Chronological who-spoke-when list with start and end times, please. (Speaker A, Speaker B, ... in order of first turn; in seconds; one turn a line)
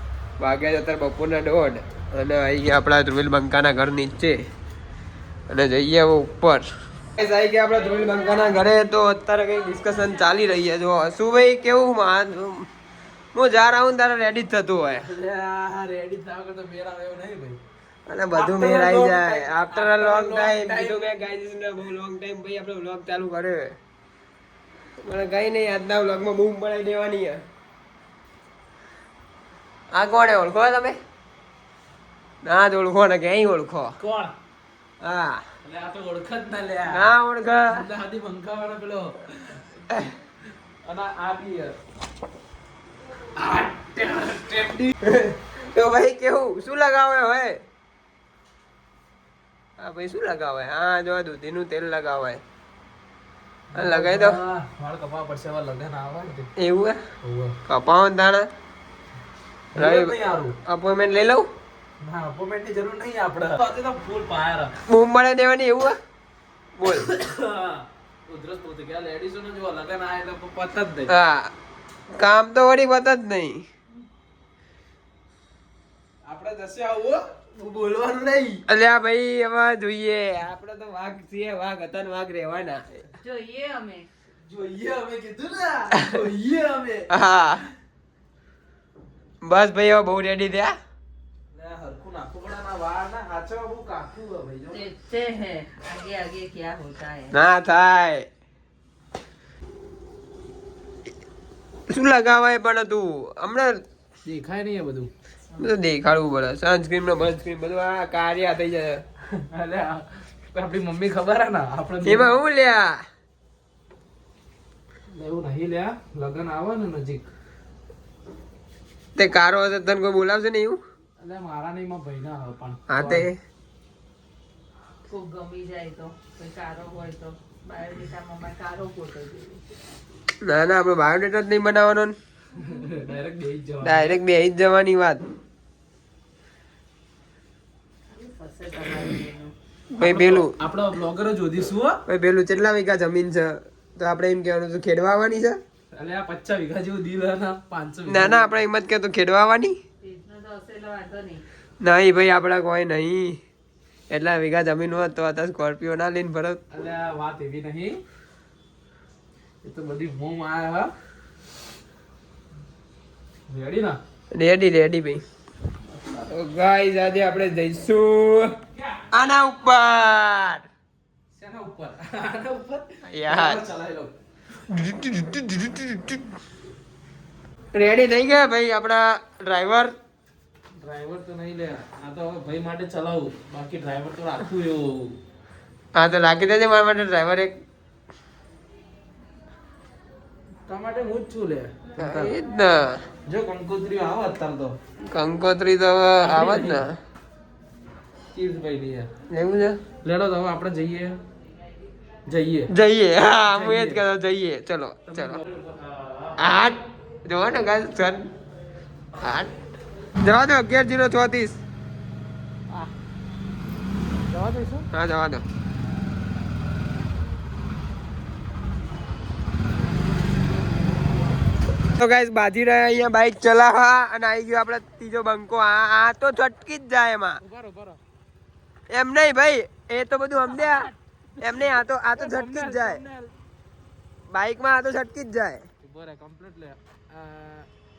Speaker A: 0.4-4.4
Speaker A: 5.5-6.7
Speaker A: 7.2-12.7
Speaker A: 13.3-15.1
Speaker B: 15.1-17.6
Speaker A: 18.1-23.8
Speaker B: 18.3-21.1
Speaker A: 25.0-27.4
Speaker A: 29.9-31.0
Speaker A: 32.4-34.0
Speaker B: 34.0-34.4
Speaker A: 35.0-35.4
Speaker B: 35.6-37.1
Speaker A: 36.9-37.9
Speaker B: 37.7-39.6
Speaker B: 40.8-41.8
Speaker B: 43.4-44.9
Speaker A: 45.0-47.6
Speaker A: 49.8-52.4
Speaker B: 53.7-56.5
Speaker A: 53.7-54.4
Speaker A: 56.6-57.0
Speaker B: 57.2-57.5
Speaker A: 57.7-58.5
Speaker B: 59.8-60.5
Speaker A: 59.8-61.5
Speaker B: 62.0-64.7
Speaker A: 64.9-65.9
Speaker A: 66.8-67.1
Speaker B: 66.9-71.1
Speaker A: 71.1-71.5
Speaker A: 72.2-73.6
Speaker B: 76.3-78.6
Speaker A: 78.7-82.8
Speaker C: 83.2-84.1
Speaker B: 84.5-87.1
Speaker A: 87.1-87.7
Speaker A: 89.4-90.7
Speaker B: 91.5-94.9
Speaker C: 94.7-97.3
Speaker A: 97.3-98.3
Speaker A: 101.9-103.8
Speaker B: 104.3-105.1
Speaker A: 105.6-109.0
Speaker B: 109.4-112.3
Speaker A: 112.0-113.0
Speaker B: 115.1-117.3
Speaker A: 119.2-120.8
Speaker B: 121.2-123.3
Speaker A: 122.9-123.4
Speaker C: 125.1-129.6
Speaker A: 130.4-132.1
Speaker B: 132.6-134.2
Speaker A: 133.8-135.2
Speaker C: 138.1-139.5
Speaker A: 139.9-140.6
Speaker B: 140.0-142.0
Speaker A: 142.1-145.6
Speaker B: 145.9-148.5
Speaker A: 148.1-149.7
Speaker C: 150.0-151.4
Speaker A: 151.8-153.4
Speaker A: 154.1-156.6
Speaker B: 156.7-158.0
Speaker B: 159.6-160.9
Speaker B: 163.5-164.0
Speaker A: 164.3-165.2
Speaker A: 166.3-168.5
Speaker A: 169.1-170.6
Speaker B: 171.3-174.1
Speaker A: 173.1-173.6
Speaker A: 174.7-176.2
Speaker A: 177.7-179.9
Speaker B: 180.8-185.2
Speaker A: 186.0-187.6
Speaker B: 190.7-192.3
Speaker A: 192.0-193.0
Speaker B: 193.3-194.8
Speaker A: 195.1-196.9
Speaker B: 196.2-196.8
Speaker B: 198.3-199.1
Speaker A: 199.3-199.8
Speaker B: 200.0-201.2
Speaker B: 202.3-202.7
Speaker A: 202.7-205.4
Speaker B: 203.5-204.0
Speaker B: 205.1-206.4
Speaker A: 206.4-208.3
Speaker A: 209.2-209.5
Speaker A: 210.2-211.6
Speaker B: 214.3-214.9
Speaker A: 214.9-215.4
Speaker A: 222.0-227.4
Speaker B: 227.4-228.0
Speaker A: 228.9-233.0
Speaker B: 230.5-233.3
Speaker A: 234.3-235.6
Speaker B: 235.8-237.7